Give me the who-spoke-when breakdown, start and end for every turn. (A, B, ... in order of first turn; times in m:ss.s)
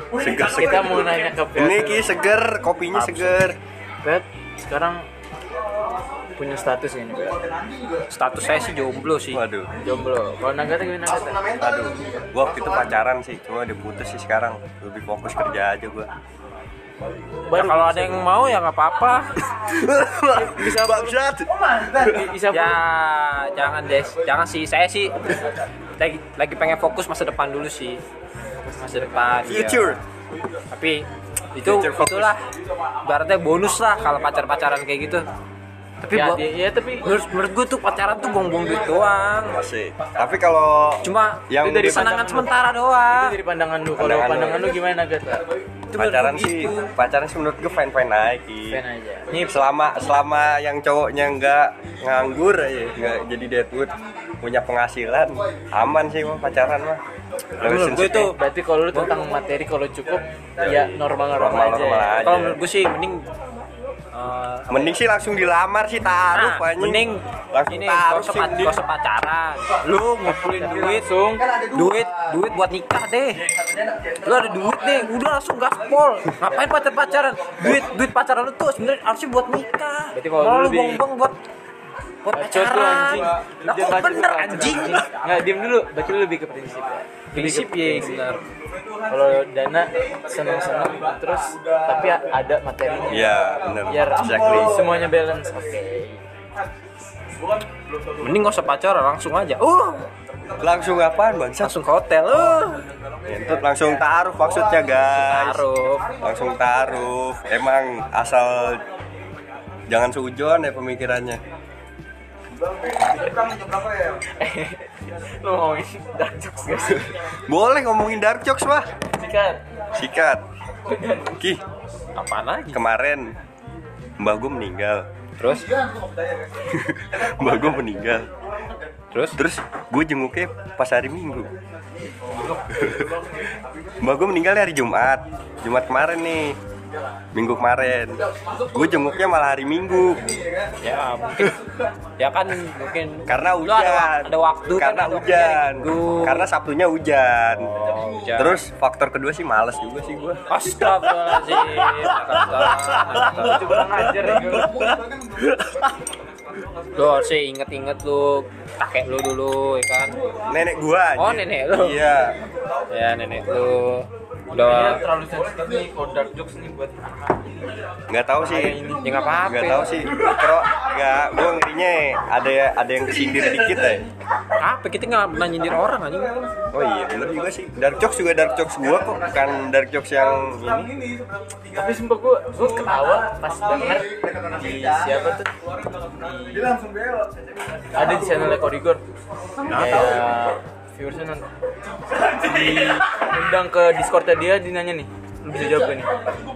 0:00.2-0:03.6 A
0:00.5-0:02.1 B
0:02.9-0:03.4 C
0:04.0-0:05.0 B
0:06.4-0:07.4 B
0:08.1-0:09.4 C
0:09.3-0:09.7 A
0:09.8-0:11.5 B
0:11.6-0:16.1 A
0:17.4-0:18.6 B
0:17.5-0:19.3 C
0:19.4-0:21.5 A
0:20.3-0:21.2 B
0:21.9-0:22.8 B
0:22.5-0:25.2 C
0:26.0-0:28.0 C
0:28.6-0:29.5 B
0:28.9-0:30.0 C
0:29.4-0:30.0 A
0:30.7-0:32.4 C
0:31.6-0:32.3 A
0:33.0-0:35.3 C
0:36.0-0:36.4 C
0:36.1-0:37.0 B
0:37.0-0:39.6 C
0:39.5-0:42.0 A
0:41.0-0:43.3 C
0:41.6-0:42.5 B
0:43.1-0:45.4 B
0:44.0-0:44.7 A
0:45.9-0:46.9 C
0:45.9-0:48.8 A
0:48.7-0:49.3 B
0:49.3-0:57.0 A
0:57.6-0:58.3 A
0:57.6-0:58.4 C
0:58.2-1:02.3 B
1:00.6-1:02.6 A
1:02.2-1:03.2 C
1:04.1-1:04.9 C
1:04.7-1:08.8 A
1:06.3-1:11.0 C
1:10.5-1:11.5 B
1:11.7-1:13.4 C
1:14.2-1:21.4 C
1:20.1-1:21.0 B
1:22.2-1:25.1 C
1:22.3-1:28.2 B
1:27.3-1:28.4 C
1:29.1-1:36.2 B
1:33.1-1:34.7 A
1:38.2-1:40.0 C
1:40.6-1:41.7 A
1:41.6-1:42.8 C
1:43.2-1:45.6 A
1:45.0-1:46.1 C
1:46.2-1:48.8 A
1:49.9-1:51.4 A
1:54.4-1:57.1 B
1:57.5-1:58.9 A
1:59.2-1:59.6 B
1:59.9-2:00.4 A
2:00.9-2:01.3 B
2:02.2-2:02.8 C
2:02.7-2:03.3 A
2:04.2-2:05.0 A
2:05.4-2:05.7 C
2:06.6-2:08.3 A
2:09.4-2:11.5 A
2:12.7-2:13.2 A
2:14.0-2:16.6 A
2:17.3-2:18.2 A
2:18.7-2:20.4 A
2:20.8-2:21.6 C
2:22.2-2:26.5 C
2:23.3-2:27.7 A
2:27.5-2:28.6 C
2:28.4-2:30.4 A
2:30.5-2:33.8 C
2:31.3-2:33.4 A
2:33.1-2:34.9 B
2:34.2-2:35.9 A
2:37.0-2:40.2 C
2:40.4-2:42.4 A
2:41.2-2:42.0 C
2:42.9-2:45.0 C
2:44.5-2:47.5 B
2:48.1-2:48.8 A
2:48.4-2:49.8 B
2:49.0-2:50.1 C
2:49.4-2:54.1 A
2:54.6-2:56.3 C
2:56.7-3:00.9 A
3:01.7-3:05.5 B
3:06.2-3:06.8 B
3:07.9-3:09.0 B
3:09.7-3:10.2 C
3:09.7-3:11.4 B
3:12.2-3:16.1 B